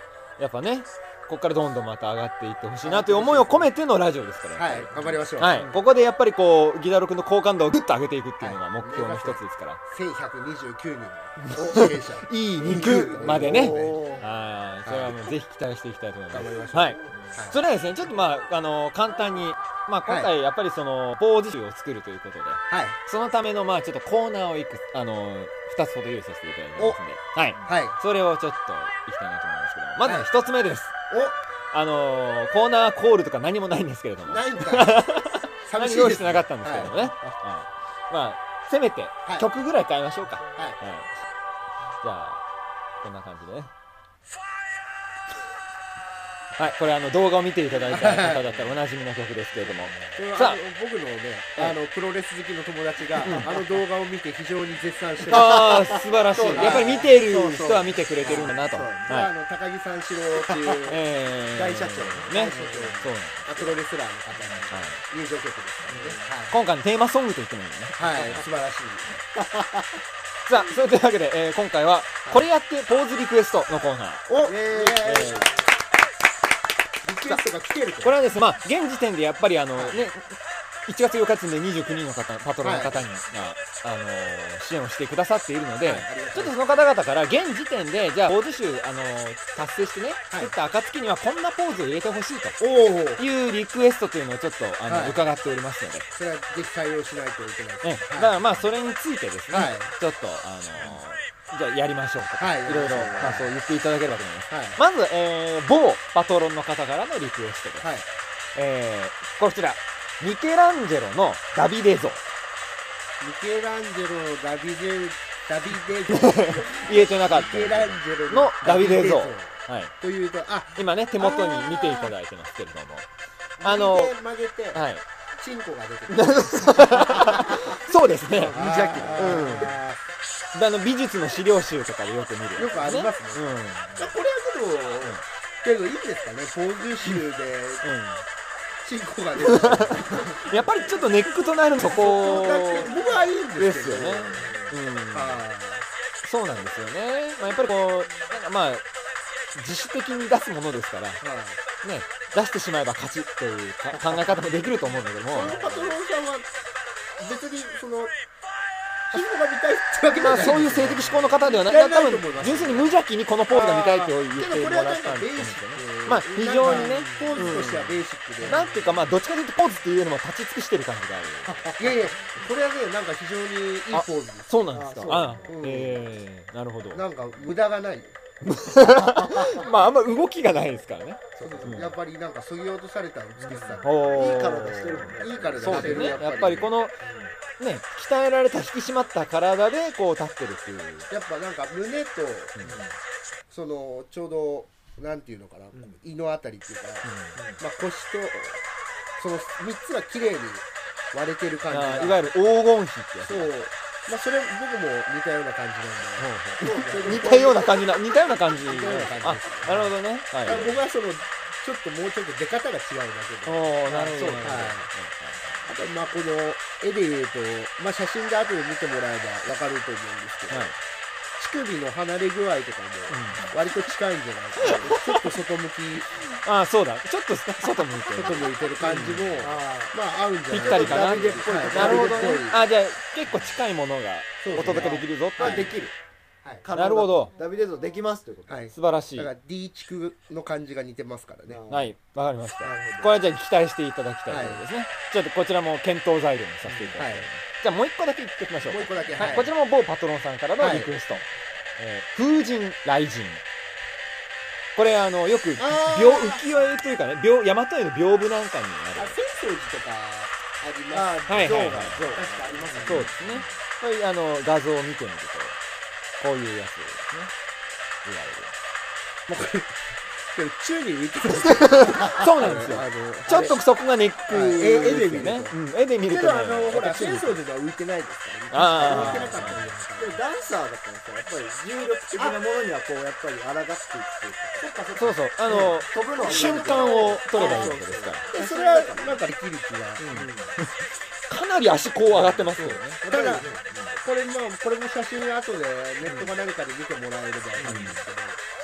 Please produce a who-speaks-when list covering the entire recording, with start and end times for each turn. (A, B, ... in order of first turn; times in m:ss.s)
0:00.4-0:09.8 A
0:02.8-0:03.7 B
0:04.6-0:05.8 B
0:08.4-0:14.1 B
0:11.4-0:30.9 A
0:12.7-0:14.3 C
0:14.8-0:15.3 B
0:16.3-0:17.6 B
0:17.1-0:17.4 C
0:20.0-0:20.3 B
0:22.7-0:23.0 B
0:27.6-0:28.0 B
0:30.0-0:30.3 B
0:31.1-0:31.4 B
0:31.7-0:41.1 A
0:34.3-0:35.0 B
0:35.7-0:37.0 B
0:40.5-0:40.8 B
0:42.0-0:42.4 A
0:43.0-0:43.7 A
0:46.6-0:50.6 A
0:47.9-0:48.6 B
0:49.6-0:50.2 C
0:50.1-0:55.8 B
0:53.2-0:53.5 A
0:53.2-0:53.8 C
0:55.2-0:59.2 C
0:55.3-0:59.3 A
0:56.5-0:57.1 B
0:59.1-1:01.0 B
1:00.3-1:00.8 C
1:00.9-1:03.8 A
1:01.5-1:03.1 C
1:02.3-1:06.6 B
1:04.3-1:04.6 C
1:04.7-1:05.0 A
1:05.8-1:06.3 C
1:06.5-1:08.4 A
1:08.0-1:09.2 B
1:09.3-1:10.0 C
1:10.5-1:14.2 A
1:14.3-1:15.4 B
1:14.4-1:15.5 C
1:15.0-1:15.5 A
1:17.0-1:18.2 B
1:18.0-1:32.6 A
1:19.8-1:20.0 B
1:22.6-1:23.0 B
1:25.8-1:26.6 B
1:32.6-1:33.2 B
1:33.2-1:36.1 A
1:34.8-1:35.2 B
1:36.1-1:38.4 B
1:37.8-1:47.9 A
1:39.5-1:39.9 B
1:42.4-1:43.5 B
1:42.9-1:43.4 C
1:44.5-1:44.8 B
1:47.8-1:48.1 B
1:48.5-1:52.2 A
1:53.2-2:02.1 B
1:56.1-1:59.9 A
2:00.8-2:03.1 A
2:03.6-2:04.8 B
2:03.6-2:04.2 A
2:04.7-2:05.0 A
2:05.4-2:07.8 B
2:06.1-2:08.6 A
2:08.3-2:09.9 B
2:08.4-2:10.0 C
2:09.2-2:09.7 A
2:10.5-2:13.9 A
2:12.6-2:13.4 B
2:13.9-2:17.8 B
2:17.8-2:18.2 A
2:18.8-2:20.4 B
2:19.4-2:22.9 A
2:21.8-2:24.5 B
2:23.6-2:25.4 A
2:24.2-2:24.8 C
2:25.1-2:25.8 B
2:26.2-2:28.8 A
2:29.5-2:31.2 A
2:31.2-2:31.6 B
2:31.8-2:35.6 A
2:34.0-2:34.7 C
2:35.3-2:36.0 C
2:35.3-2:36.5 B
2:37.2-2:38.1 B
2:39.1-2:48.7 B
2:40.2-2:51.5 A
2:46.6-2:48.0 C
2:48.5-2:49.0 C
2:51.4-2:54.6 B
2:51.8-2:52.1 C
2:53.9-2:57.0 A
2:54.7-2:55.6 C
2:55.4-2:56.1 B
2:56.9-2:58.2 B
2:58.4-3:02.0 A
2:59.0-2:59.7 C
3:01.4-3:01.9 C
3:01.4-3:04.0 B
3:03.4-3:06.2 C
3:03.8-3:07.0 A
3:05.2-3:06.7 B
3:07.0-3:07.4 C
3:07.6-3:11.1 A
3:11.1-3:12.5 B
3:12.5-3:12.8 A
3:12.6-3:13.0 C
3:13.5-3:18.6 B
3:15.7-3:16.0 C
3:17.0-3:17.4 A
3:17.3-3:17.6 C
3:19.2-3:22.2 B
3:21.7-3:23.5 A
3:23.2-3:27.7 B
3:26.2-3:30.8 A
3:26.6-3:27.5 C
3:28.6-3:29.8 B
3:29.6-3:29.9 C
3:30.4-3:34.9 B
3:30.5-3:30.7 C
3:33.4-3:35.7 A
3:33.8-3:34.7 C
3:35.6-3:40.7 B
3:40.5-3:40.8 A
3:41.4-3:46.2 B
3:43.1-3:43.4 A
3:44.8-3:45.3 A
3:46.4-3:49.4 A
3:48.1-3:52.6 B
3:49.4-3:50.0 C
3:50.5-3:52.4 C
3:50.5-3:55.7 A
3:54.4-3:55.7 B
3:54.5-3:55.9 C
3:56.6-3:58.6 C
3:56.7-3:57.3 A
3:58.5-4:01.6 B
3:58.7-3:59.3 A
4:01.4-4:01.9 C
4:01.7-4:11.2 A
4:02.6-4:03.2 C
4:04.3-4:04.6 B
4:06.6-4:07.0 C
4:07.0-4:07.3 B
4:08.6-4:09.5 B
4:09.0-4:09.4 C
4:10.6-4:10.9 B
4:11.8-4:13.4 A
4:14.8-4:19.2 A
4:15.6-4:16.4 B
4:19.0-4:23.1 B
4:20.9-4:23.6 C
4:21.3-4:22.2 A
4:22.8-4:25.6 A
4:26.2-4:27.3 A
4:28.0-4:28.5 A
4:29.3-4:29.7 B
4:30.3-4:33.6 B
4:31.7-4:37.4 A
4:34.3-4:40.2 B
4:38.5-4:39.7 A
4:38.8-4:49.2 C
4:42.1-4:42.4 B
4:45.0-4:48.2 A
4:45.5-4:47.7 B
4:48.3-4:50.0 B
4:50.0-4:50.6 C
4:50.0-4:50.6 A
4:51.3-4:53.0 A
4:52.1-4:52.4 C
4:52.5-4:58.4 B
4:53.1-4:54.0 C
4:57.6-4:58.0 C
4:57.6-4:58.0 A